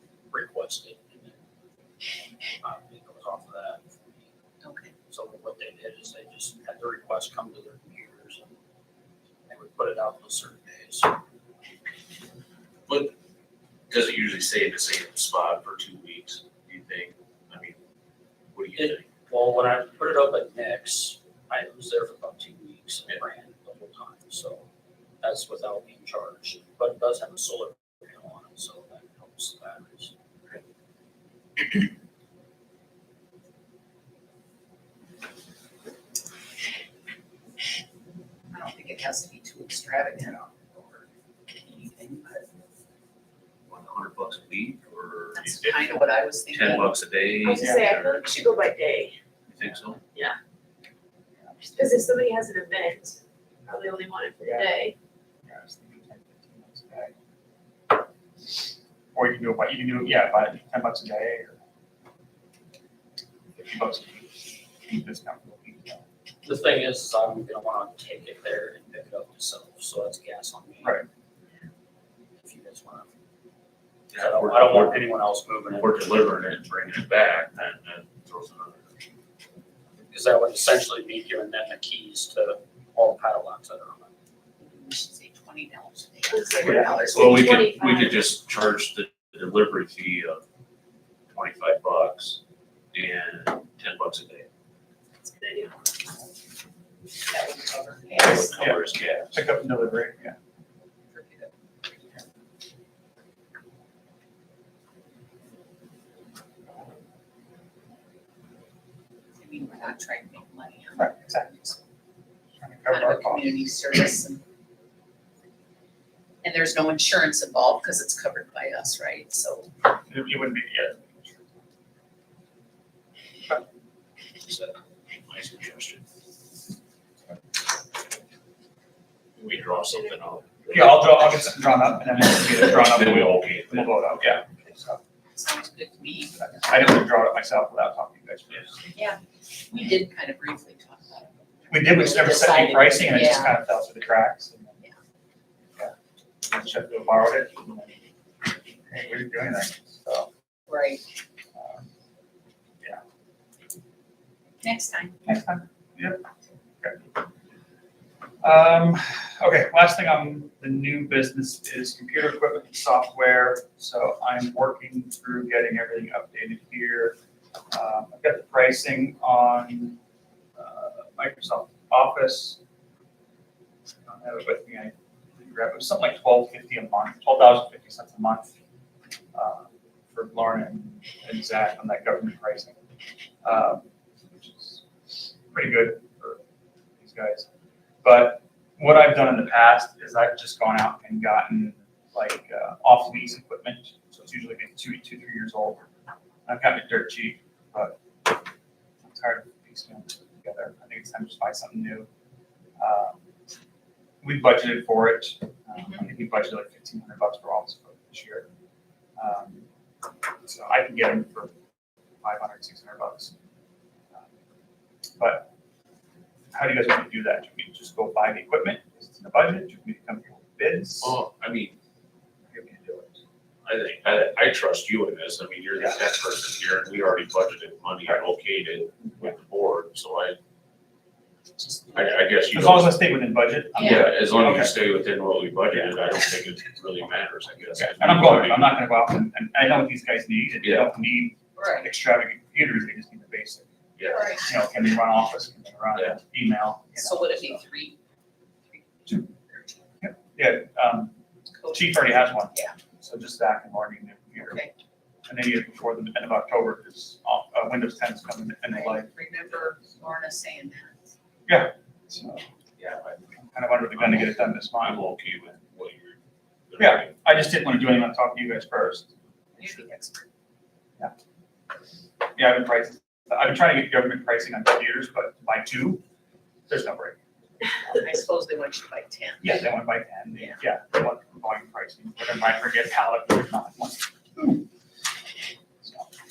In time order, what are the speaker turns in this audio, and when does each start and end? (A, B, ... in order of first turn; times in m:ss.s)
0:00.3-0:01.4 A
0:02.6-0:04.3 A
0:04.6-0:04.9 B
0:05.1-0:08.5 A
0:09.5-0:11.2 A
0:12.9-0:13.2 C
0:13.9-0:17.8 C
0:18.5-0:19.1 C
0:18.7-0:24.6 A
0:25.2-0:30.1 A
0:38.5-0:42.5 B
0:43.7-0:45.9 C
0:45.3-0:47.0 B
0:46.5-0:48.2 C
0:47.4-0:49.1 D
0:47.6-0:47.9 E
0:49.5-0:50.0 C
0:51.8-0:54.9 D
0:54.4-0:54.7 E
0:55.5-0:57.1 E
0:59.2-1:01.6 E
1:03.6-1:06.0 E
1:06.4-1:11.0 A
1:12.4-1:13.1 A
1:14.1-1:15.1 C
1:14.2-1:16.0 A
1:15.7-1:18.9 C
1:20.1-1:24.1 A
1:24.6-1:27.6 B
1:26.3-1:28.2 D
1:26.6-1:26.9 E
1:27.1-1:30.4 C
1:31.3-1:32.4 C
1:32.9-1:34.5 C
1:35.4-1:35.8 D
1:37.3-1:38.8 B
1:38.2-1:39.4 C
1:38.2-1:40.4 E
1:41.1-1:42.2 B
1:49.4-1:51.8 B
1:51.0-1:51.5 E
1:52.6-1:53.6 E
1:52.9-1:54.4 B
1:56.4-1:59.7 B
2:00.1-2:01.5 E
2:04.5-2:04.8 C
2:05.3-2:06.0 C
2:09.4-2:11.5 C
2:10.7-2:15.0 E
2:12.4-2:14.4 C
2:15.3-2:16.8 B
2:16.6-2:18.9 E
2:18.9-2:23.6 B
2:21.7-2:24.8 E
2:25.8-2:30.3 E
2:30.7-2:31.0 B
2:31.6-2:31.9 E
2:34.6-2:35.4 B
2:35.3-2:36.2 E
2:38.4-2:47.2 E
2:47.7-2:50.0 E
2:50.6-2:52.6 E
2:54.1-2:58.5 E
2:59.3-3:02.8 E
3:03.4-3:06.4 E
3:07.0-3:07.5 E
3:08.0-3:15.9 E
3:16.5-3:18.0 E
3:19.0-3:22.1 E
3:22.8-3:23.2 E
3:24.2-3:28.5 E
3:29.2-3:29.7 E
3:30.4-3:31.5 E
3:32.2-3:33.3 E
3:35.2-3:35.5 E
3:36.5-3:41.2 E
3:41.0-3:41.8 C
3:42.5-3:43.2 E
3:43.6-3:50.4 C
3:51.6-3:52.2 B
3:51.9-3:53.0 C
3:52.5-3:54.8 E
3:53.8-3:54.2 B
3:53.8-3:58.8 C
3:57.8-4:03.7 E
4:00.6-4:00.9 C
4:01.6-4:01.9 B
4:04.0-4:04.3 C
4:04.0-4:04.5 B
4:04.4-4:07.6 E
4:06.9-4:08.0 B
4:08.7-4:09.8 B
4:10.0-4:11.2 E
4:11.6-4:12.8 B
4:11.7-4:14.6 E
4:14.4-4:14.7 B
4:15.3-4:19.1 E
4:18.7-4:21.0 B
4:21.5-4:22.5 E
4:22.8-4:23.3 C
4:23.4-4:25.0 E
4:23.9-4:27.2 C
4:26.8-4:29.8 E
4:29.6-4:30.3 B
4:32.4-4:36.0 E
4:36.7-4:37.2 E
4:37.9-4:39.7 B
4:39.4-4:44.7 E
4:45.8-4:46.1 E